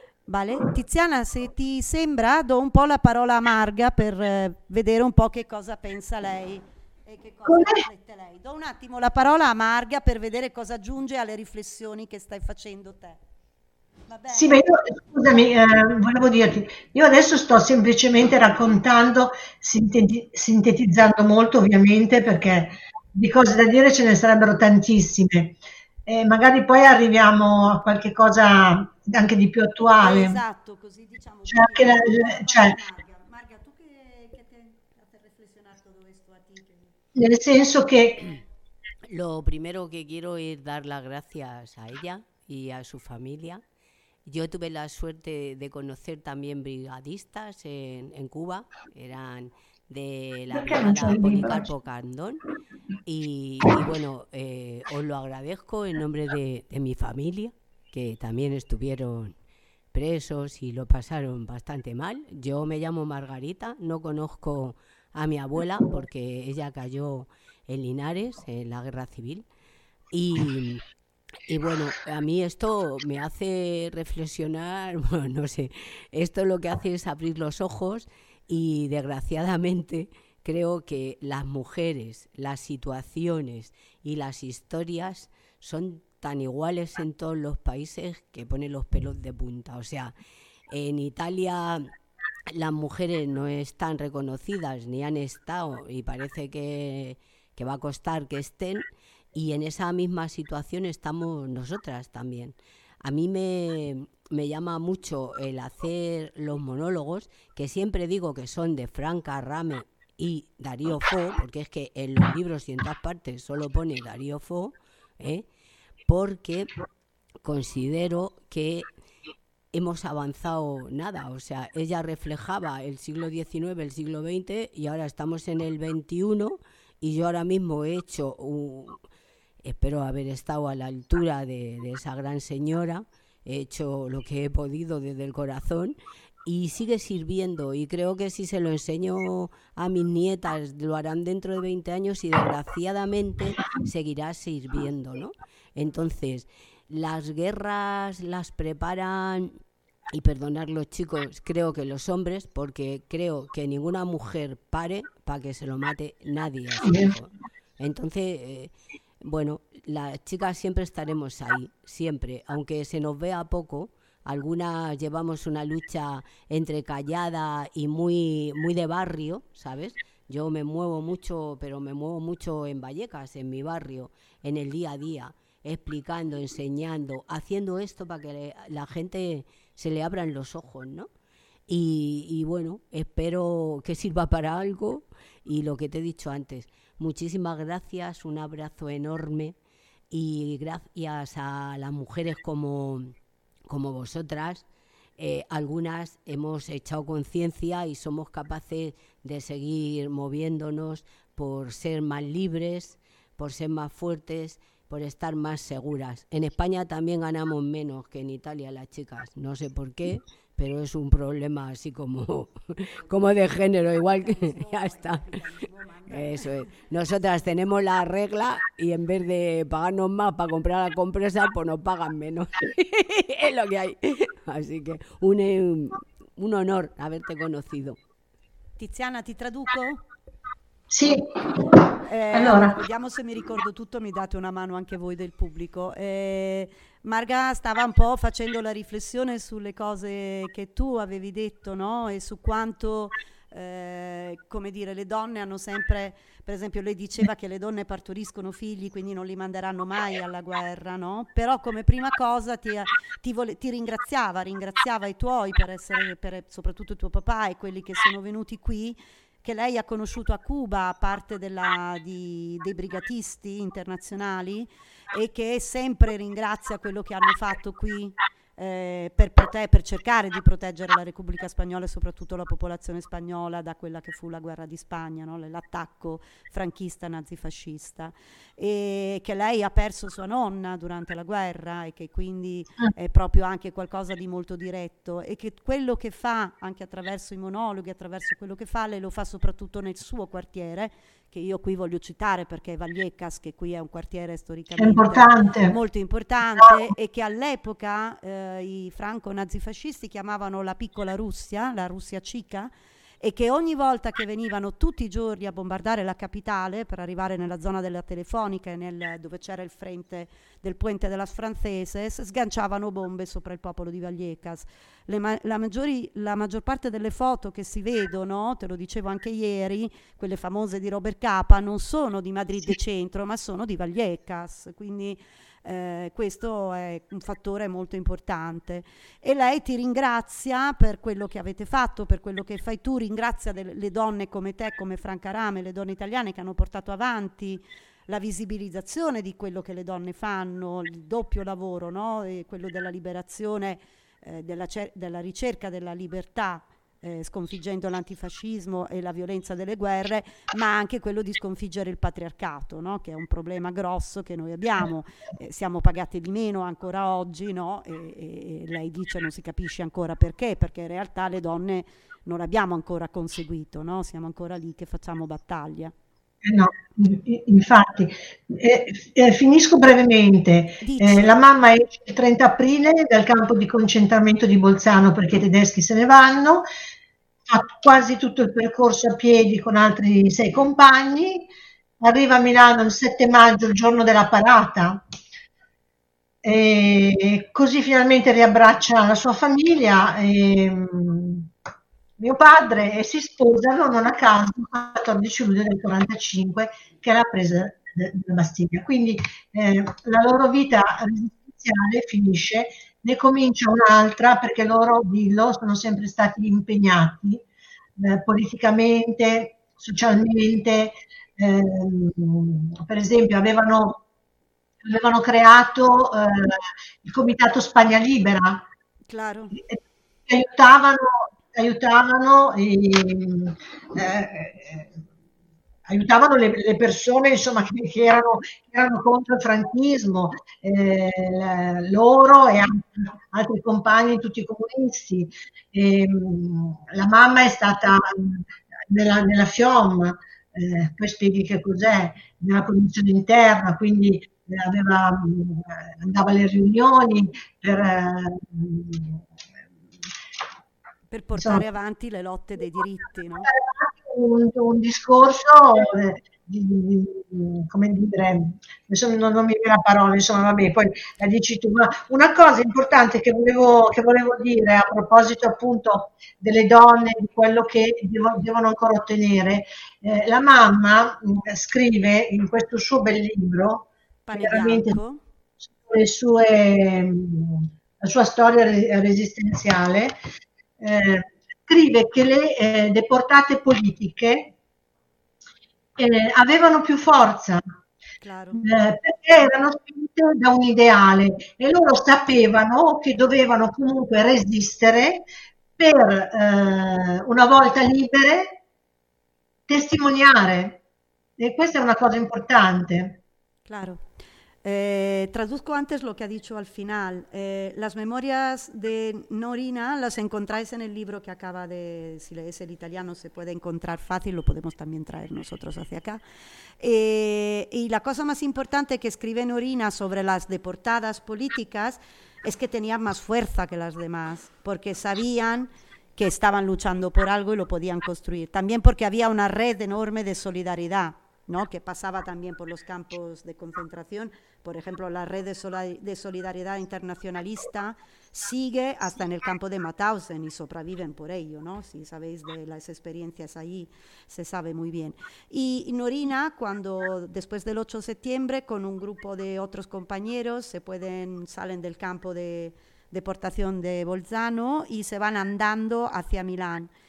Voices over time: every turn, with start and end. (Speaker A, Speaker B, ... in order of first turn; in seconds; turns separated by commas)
Speaker A: 0.3-13.2, Speaker B: 7.5-7.8, Speaker A: 14.1-14.8, Speaker B: 14.3-30.4, Speaker A: 30.0-36.9, Speaker B: 31.5-32.8, Speaker B: 37.1-38.2, Speaker C: 39.1-43.6, Speaker C: 44.2-52.4, Speaker B: 50.5-51.7, Speaker C: 53.0-59.3, Speaker C: 59.9-69.4, Speaker C: 70.1-70.8, Speaker C: 71.5-90.1, Speaker C: 90.7-91.9, Speaker C: 92.5-115.5, Speaker C: 116.1-116.7, Speaker C: 117.4-118.9, Speaker C: 119.7-129.0, Speaker C: 129.6-149.6, Speaker C: 150.1-181.1, Speaker B: 156.8-157.1, Speaker C: 181.7-189.5, Speaker C: 190.1-193.1, Speaker C: 193.7-194.6, Speaker C: 195.2-215.4, Speaker A: 213.5-217.4, Speaker C: 216.1-228.0, Speaker A: 228.8-230.0, Speaker B: 230.9-231.2, Speaker A: 232.0-302.7, Speaker B: 232.3-232.8, Speaker B: 294.8-295.7, Speaker A: 303.2-365.9, Speaker B: 366.4-376.6, Speaker A: 370.8-371.4, Speaker B: 377.5-381.5, Speaker B: 382.0-385.0, Speaker B: 386.4-391.5, Speaker B: 392.2-407.4, Speaker B: 408.0-414.0, Speaker B: 414.8-418.6, Speaker A: 419.1-419.5, Speaker B: 419.5-424.9, Speaker B: 425.9-449.2, Speaker A: 451.1-453.5, Speaker B: 451.4-451.6, Speaker B: 453.4-475.0, Speaker A: 474.3-475.2, Speaker B: 475.7-480.2, Speaker B: 480.8-484.5, Speaker B: 486.0-487.6, Speaker A: 488.2-488.6, Speaker B: 488.5-495.2, Speaker B: 495.8-498.6, Speaker B: 499.7-500.8, Speaker B: 501.4-503.2, Speaker A: 503.7-504.0, Speaker A: 504.6-516.2, Speaker A: 516.8-556.9